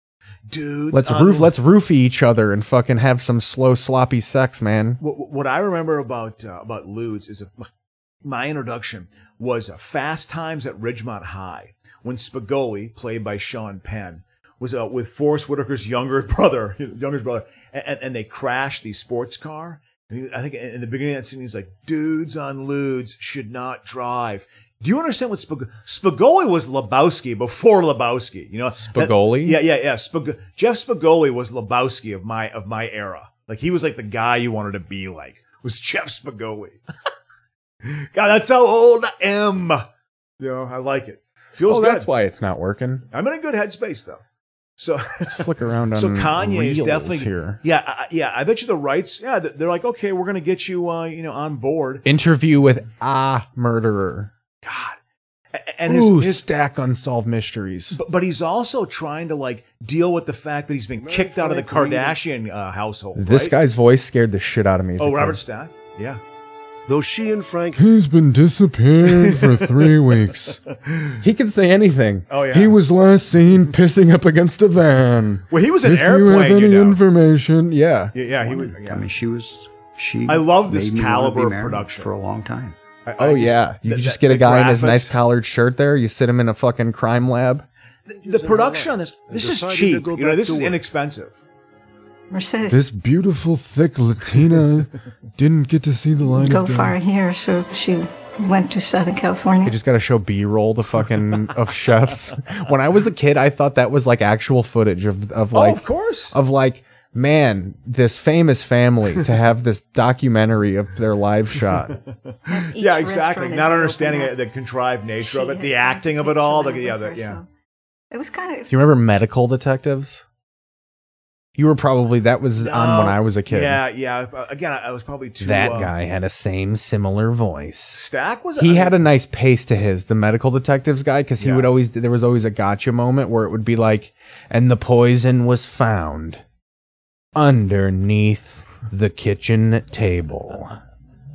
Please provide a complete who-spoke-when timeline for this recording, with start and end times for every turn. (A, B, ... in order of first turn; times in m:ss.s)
0:00.5-0:01.5 A
0:00.9-0:05.0 B
0:05.0-0:07.7 A
0:08.2-0:36.8 A
0:28.9-0:29.6 B
0:37.8-0:39.8 A
0:40.4-0:42.1 A
0:41.6-0:43.0 B
0:43.1-0:44.2 A
0:44.8-0:45.4 A
0:45.2-0:47.6 B
0:45.9-0:52.0 A
0:52.0-0:54.3 B
0:54.6-0:55.0 A
0:55.6-0:56.4 A
0:55.8-0:58.0 B
0:57.9-1:03.5 A
1:01.0-1:02.2 C
1:03.1-1:05.4 B
1:05.0-1:06.2 A
1:06.9-1:07.8 C
1:07.8-1:10.6 B
1:09.0-1:11.2 A
1:11.2-1:18.1 B
1:12.3-1:12.8 A
1:15.5-1:17.0 A
1:18.1-1:19.0 A
1:18.4-1:22.7 D
1:20.2-1:22.1 A
1:23.0-1:25.1 A
1:23.2-1:27.6 B
1:28.1-1:31.4 A
1:28.2-1:30.8 C
1:32.3-1:32.8 E
1:32.7-1:37.0 B
1:36.3-1:39.8 E
1:39.6-1:52.0 B
1:45.5-1:46.3 A
1:51.8-1:57.4 A
1:52.5-1:54.4 E
1:55.2-1:57.4 E
1:58.1-1:58.7 E
1:58.7-2:00.2 B
2:01.6-2:03.8 B
2:02.6-2:05.9 A
2:05.4-2:08.0 B
2:07.9-2:09.0 A
2:08.6-2:16.4 B
2:11.4-2:11.7 A
2:17.3-2:20.8 B